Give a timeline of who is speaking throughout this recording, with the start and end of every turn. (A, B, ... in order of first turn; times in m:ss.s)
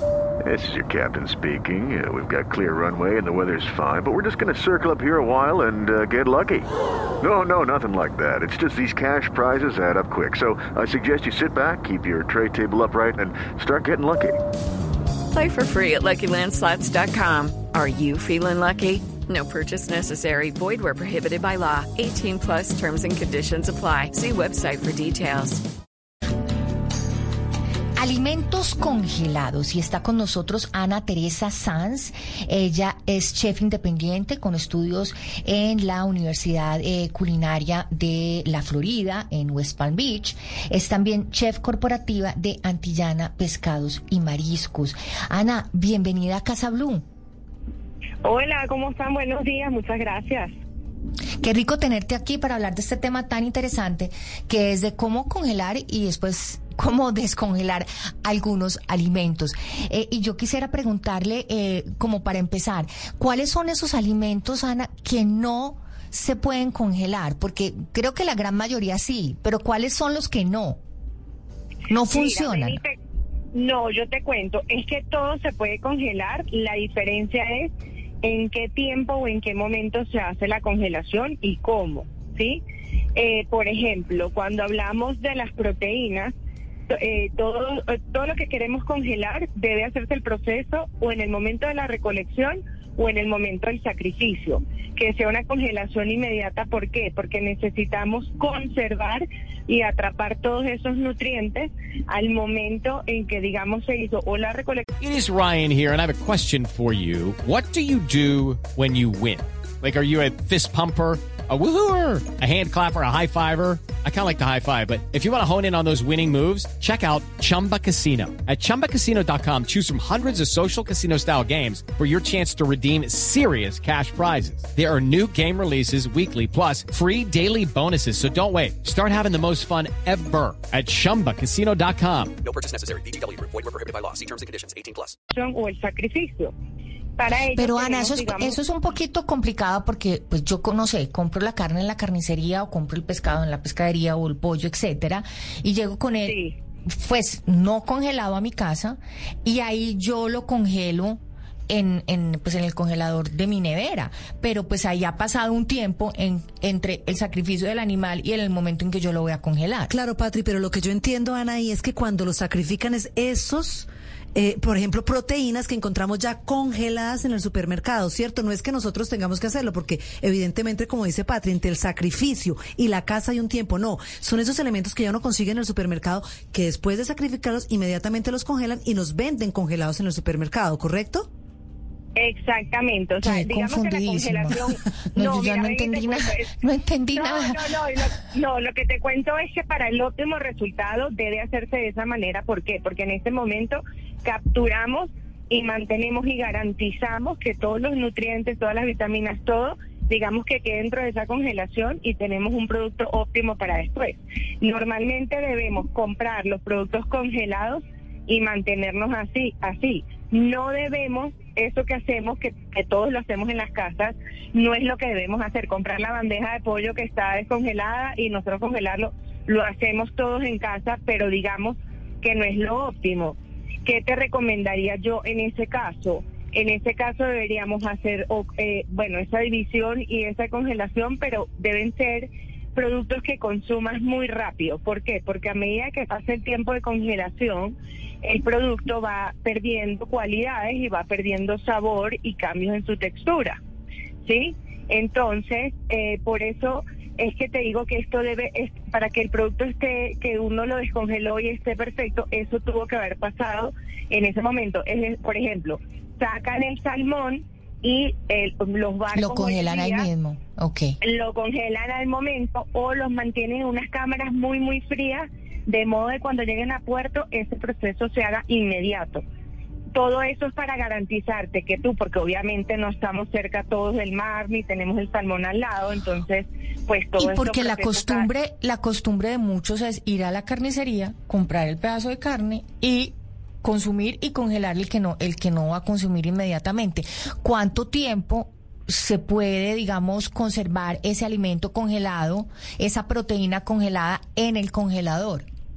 0:00.4-0:06.7 A
0:07.2-0:14.4 A
0:15.3-0:25.6 B
0:28.0-0:47.0 C
0:48.2-0:50.5 D
0:51.4-1:10.8 C
1:11.9-1:12.8 C
1:12.1-1:12.9 D
1:13.5-1:17.7 D
1:18.2-1:22.6 D
1:23.2-1:26.3 D
1:26.9-1:44.8 D
1:45.0-2:12.3 E
2:12.4-2:15.1 F
2:15.3-2:16.5 D
2:17.2-2:18.6 D
2:17.5-2:26.4 C
2:26.2-2:26.6 D
2:26.9-2:39.9 C
2:39.9-3:01.3 G
3:02.2-3:06.6 D
3:03.2-3:04.6 C
3:05.1-3:07.5 C
3:07.1-4:03.6 D
4:04.3-4:20.1 D
4:19.1-4:21.0 C
4:21.0-4:29.2 D
4:29.9-4:38.3 D
4:37.2-4:55.5 C